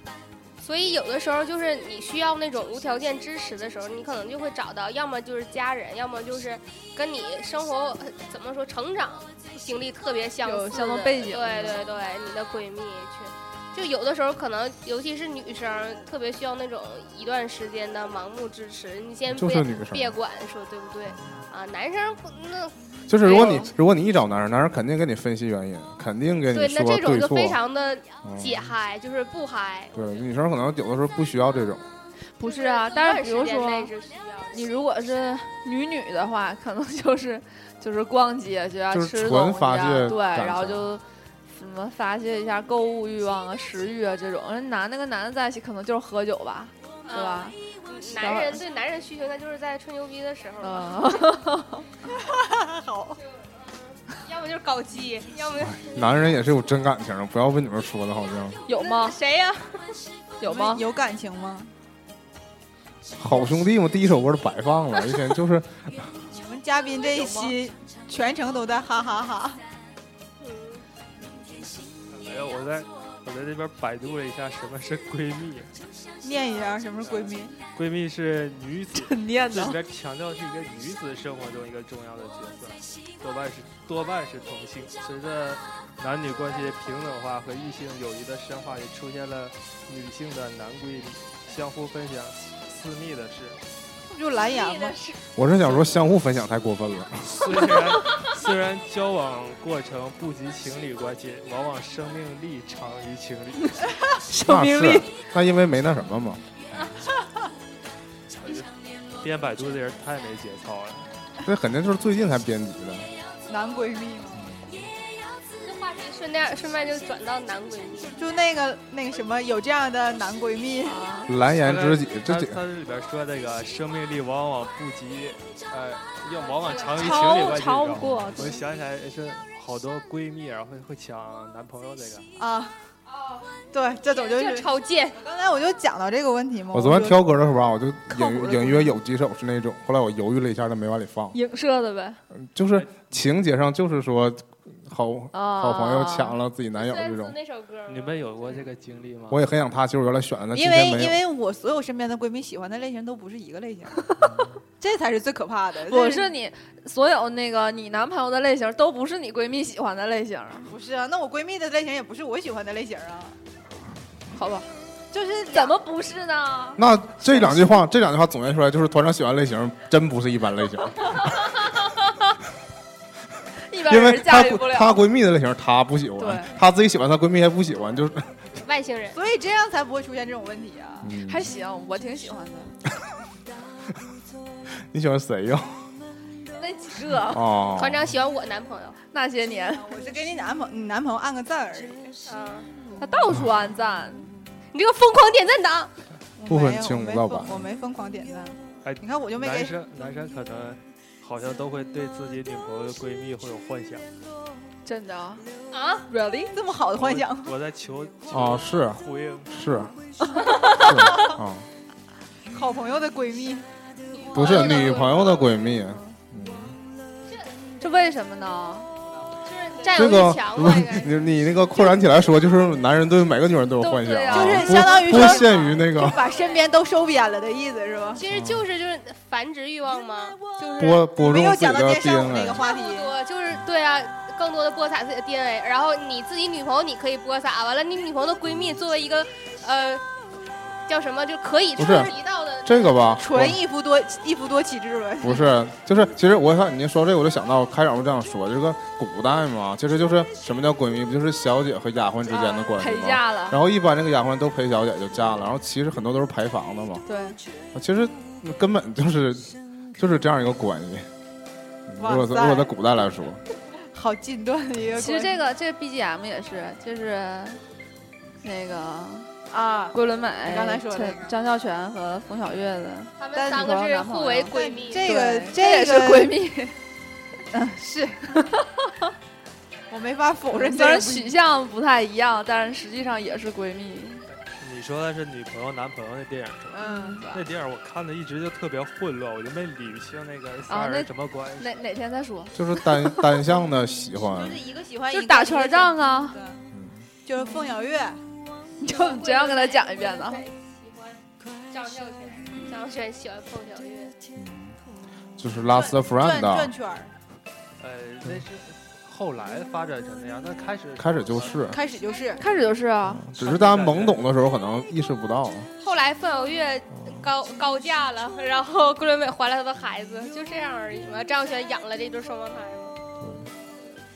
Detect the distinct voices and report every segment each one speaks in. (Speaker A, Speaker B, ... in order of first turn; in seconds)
Speaker A: 0.6-23.7, 26.5-30.3, 32.4-34.7, 47.0-51.1, 53.2-56.2, 58.7-60.0, 70.4-70.8, 94.4-95.2, 115.6-118.2, 126.6-127.4, 133.1-133.5, 134.1-135.2, 146.8-148.3, 178.6-179.2, 187.7-189.0, 192.3-192.7, 194.7-195.9, 205.7-206.1, 214.1-215.5, 219.5-221.2, 226.0-226.6, 228.2-231.0, 232.6-240.0, 240.9-243.1, 273.2-275.1, 298.9-304.1, 315.8-322.9
Speaker B: 10.4-11.9, 23.3-23.6, 32.4-33.9, 34.5-47.6, 48.1-48.6, 50.6-51.9, 58.7-59.2, 60.4-60.9, 67.2-67.5, 78.9-79.8, 104.3-105.1, 120.8-121.3, 126.9-128.6, 141.3-142.2, 145.3-146.4, 155.9-160.7, 164.3-164.7, 165.5-166.8, 173.7-175.0, 176.2-176.5, 181.2-182.8, 186.6-187.4, 189.1-189.9, 193.0-194.3, 204.8-205.5, 206.1-206.5, 210.4-210.9, 215.9-216.1, 217.8-218.9, 223.8-225.4, 252.3-253.6, 257.1-257.4, 265.0-267.6, 268.4-269.3, 269.9-276.8, 278.5-278.9, 280.5-284.3, 286.7-287.5, 290.7-293.3, 295.1-296.4, 298.8-300.4, 312.4-313.2
Speaker C: 19.3-20.1, 23.1-27.6, 28.2-28.7, 29.9-31.8, 38.9-40.9, 55.6-58.6, 63.2-66.1, 95.4-97.7, 104.5-106.4, 111.5-113.1, 121.3-122.6, 128.0-128.3, 136.7-141.4, 142.3-147.3, 149.3-151.2, 166.8-171.2, 173.9-178.4, 181.0-181.5, 184.9-185.9, 187.3-188.1, 196.5-197.7, 208.3-209.9, 210.8-211.7, 214.3-216.8, 219.9-226.2, 228.3-228.6, 230.8-232.6, 241.8-243.6, 245.2-257.0, 257.7-261.1, 261.9-263.4, 292.6-294.6, 296.7-297.1, 304.4-304.8, 305.4-306.7, 311.0-311.8, 313.1-315.7, 323.2-323.5
Speaker D: 52.1-53.2, 60.4-61.7, 66.3-69.6, 76.2-77.5, 94.1-95.0, 113.5-114.5, 118.1-121.0, 132.4-132.8, 133.7-137.3, 138.1-138.9, 150.5-154.0, 154.8-156.3, 160.7-163.4, 165.1-165.8, 179.1-181.1, 189.8-192.2, 196.4-199.7, 206.5-207.5, 210.9-211.3, 212.5-213.6, 224.3-228.2, 230.8-233.1, 243.2-245.5, 262.0-262.8, 263.9-265.5, 269.5-271.3, 273.4-276.3, 277.5-278.3, 279.9-281.3, 286.8-287.2, 294.3-296.6, 297.2-298.2, 305.6-307.1, 311.7-312.4
Speaker E: 72.1-75.7, 77.0-93.6, 97.3-104.0, 108.4-111.1, 121.6-132.3, 142.7-143.0, 147.9-149.4, 198.8-204.1, 207.0-209.6, 284.3-291.9, 307.8-311.7, 313.4-314.3